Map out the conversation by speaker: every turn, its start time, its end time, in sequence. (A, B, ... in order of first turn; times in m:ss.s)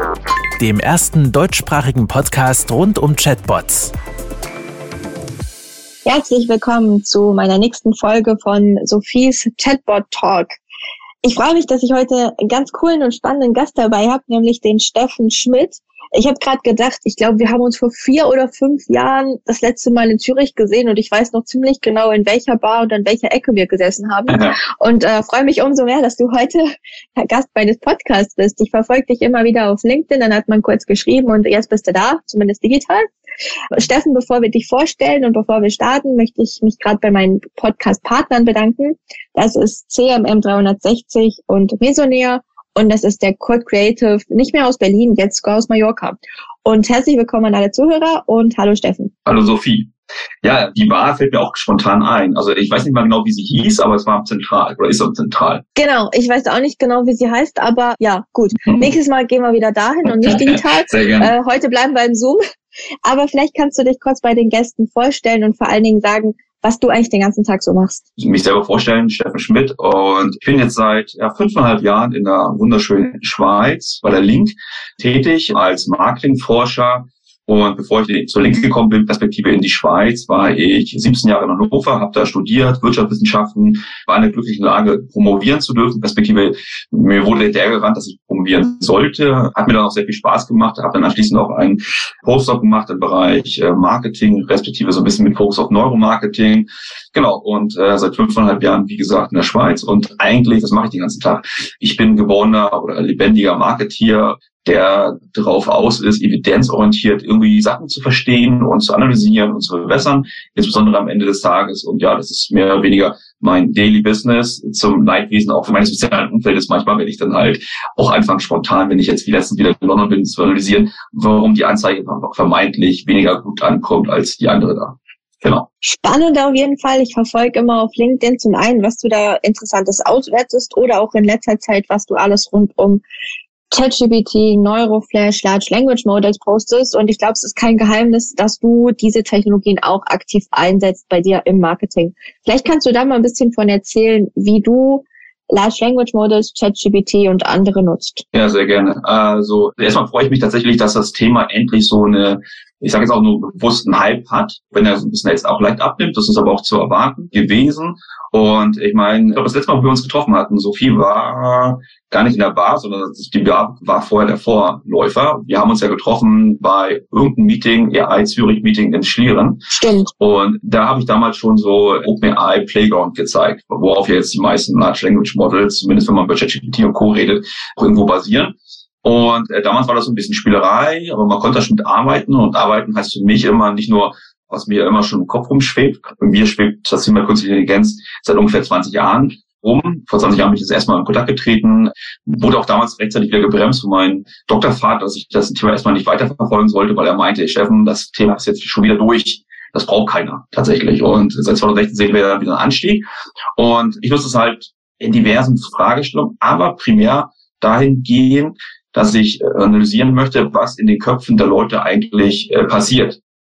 0:00.6-0:03.9 A
0:06.0-0:10.5 B
0:11.2-0:33.0 B
0:24.3-0:24.6 C
0:33.7-0:49.1 B
0:49.2-0:49.9 C
0:50.4-0:55.6 C
0:55.8-1:02.4 B
1:00.0-1:01.3 C
1:03.0-1:08.0 B
1:08.2-2:05.7 C
2:05.8-2:13.0 B
2:13.7-2:28.2 B
2:28.3-2:49.7 C
2:49.7-2:50.1 B
2:50.2-2:58.5 C
2:59.0-3:23.0 C
3:23.6-3:33.2 C